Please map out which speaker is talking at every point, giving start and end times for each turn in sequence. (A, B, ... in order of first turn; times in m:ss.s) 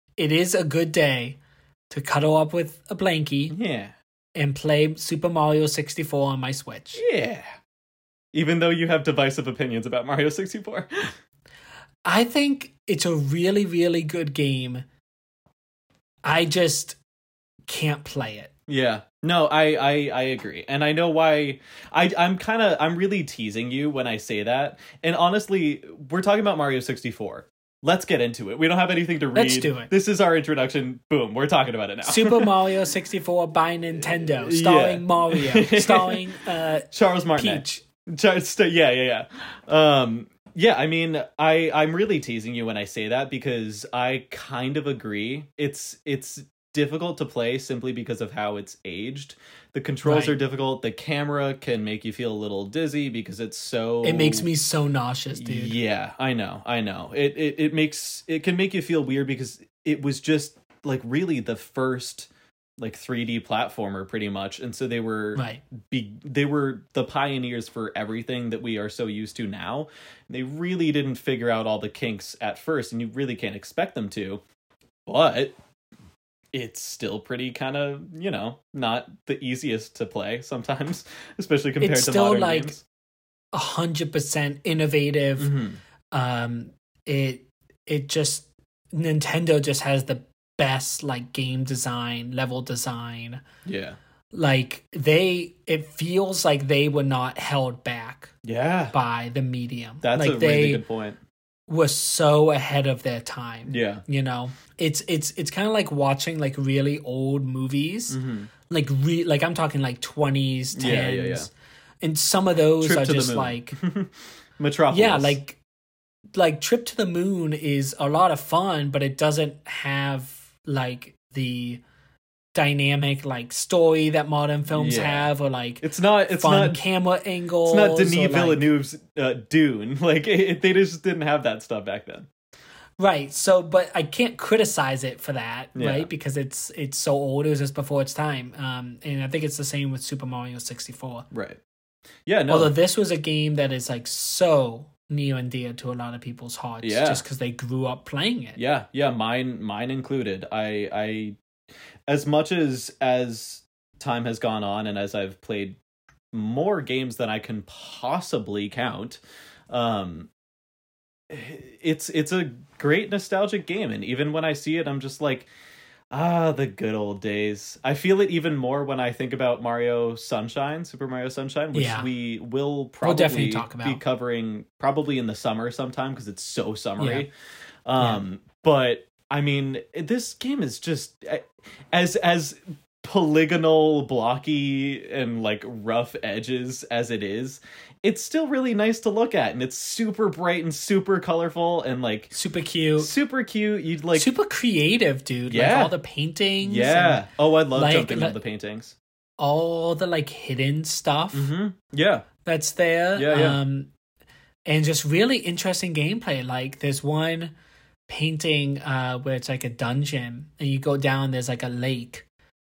0:00.2-0:01.4 A
0:01.9-0:03.6 A
0:03.5-0:03.9 B
0:04.3-0:07.0 A
0:07.0-0:07.5 B
0:08.3-0:11.1 B
0:12.0-0:14.8 A
0:16.2-0:17.0 A
0:17.7-0:18.5 A
0:18.7-0:32.5 B
0:29.3-0:29.9 A
0:32.0-0:37.8 A
0:34.0-0:36.2 B
0:36.9-0:54.5 B
0:50.0-0:50.3 A
0:54.0-0:55.8 A
0:55.3-1:14.4 B
1:05.3-1:05.6 A
1:15.0-1:15.5 B
1:16.5-1:22.8 B
1:21.8-1:22.8 A
1:23.5-1:25.5 A
1:25.4-1:25.8 B
1:26.1-1:33.4 A
1:33.6-1:34.0 B
1:34.3-1:38.3 A
1:38.4-1:38.9 B
1:38.9-1:40.8 A
1:40.0-1:41.2 B
1:41.7-1:48.2 A
1:43.7-1:44.0 B
1:48.1-1:48.5 B
1:48.7-1:51.5 A
1:50.7-1:51.5 B
1:52.0-1:53.8 A
1:52.8-1:55.4 B
1:54.9-1:55.6 A
1:56.3-2:01.8 A
2:02.5-2:08.6 A
2:04.7-2:06.8 B
2:07.6-2:12.3 B
2:13.0-2:21.3 A
2:15.7-2:16.1 B
2:21.3-2:21.6 B
2:22.2-2:22.7 B
2:22.5-2:28.6 A
2:26.8-2:27.2 B
2:28.6-2:31.4 B
2:32.1-2:35.8 B
2:36.3-2:40.3 B
2:41.3-2:45.5 B
2:46.1-2:57.3 B
2:51.7-2:52.1 A
2:53.0-2:54.0 A
2:57.0-2:57.2 A
2:57.8-3:12.3 B
3:12.3-3:13.1 A
3:13.0-3:14.3 B
3:14.1-3:18.4 A
3:15.5-3:15.9 B
3:16.6-3:18.9 B
3:19.4-3:21.5 A
3:21.3-3:22.2 B
3:22.4-3:23.9 A
3:23.1-3:23.6 B
3:24.6-3:27.5 A
3:28.1-3:32.2 A